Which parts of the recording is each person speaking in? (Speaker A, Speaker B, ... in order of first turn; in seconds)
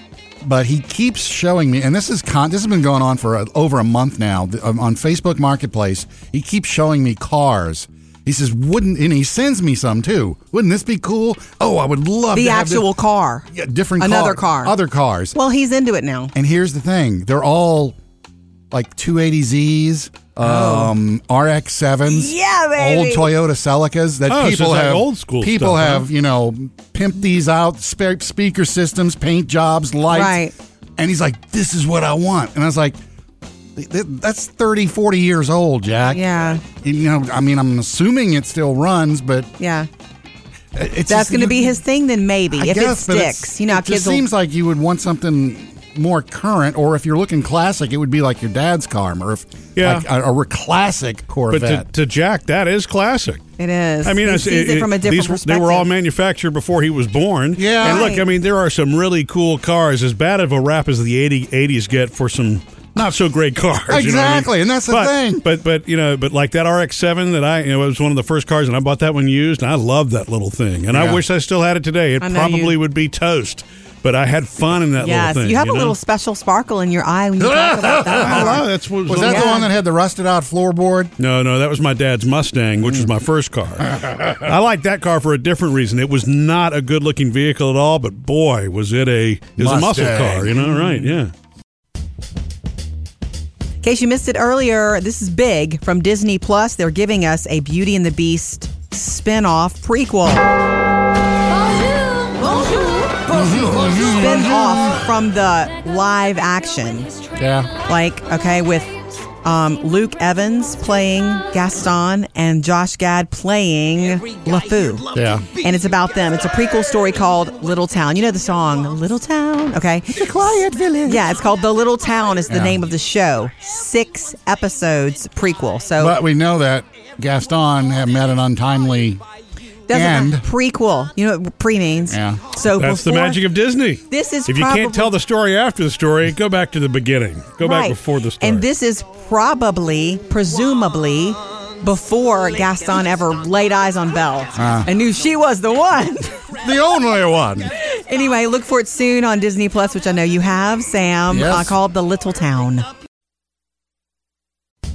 Speaker A: 0.4-12.9, 13.5-15.4, 16.4-17.9, 18.7-30.4, 31.0-33.0, 33.7-39.5, 40.7-41.8, 42.5-51.9, 57.5-58.2, 63.9-65.4, 70.9-71.2, 77.4-81.1, 89.6-91.0, 103.3-105.0, 107.4-107.7, 115.1-115.5, 120.1-121.2, 122.5-122.8, 126.0-129.2, 129.9-130.4, 132.1-132.4, 144.5-144.9, 146.6-147.7, 151.3-151.7
Speaker B: 12.3-13.5, 14.0-14.7, 15.3-16.3, 20.4-20.9, 22.1-23.3, 30.1-30.5, 36.1-36.6, 39.6-39.9, 41.1-44.2, 53.6-55.9, 57.8-58.2, 72.2-72.8, 75.0-78.6, 79.2-79.7, 93.8-100.5, 102.4-102.9, 104.0-107.1, 107.9-120.2, 121.0-126.2, 129.9-133.4, 134.1-135.1, 137.6-146.3, 147.7-152.9
Speaker C: 24.3-26.1, 49.8-50.0, 51.5-53.4, 54.0-76.0, 78.2-79.6, 81.2-91.3, 132.8-138.7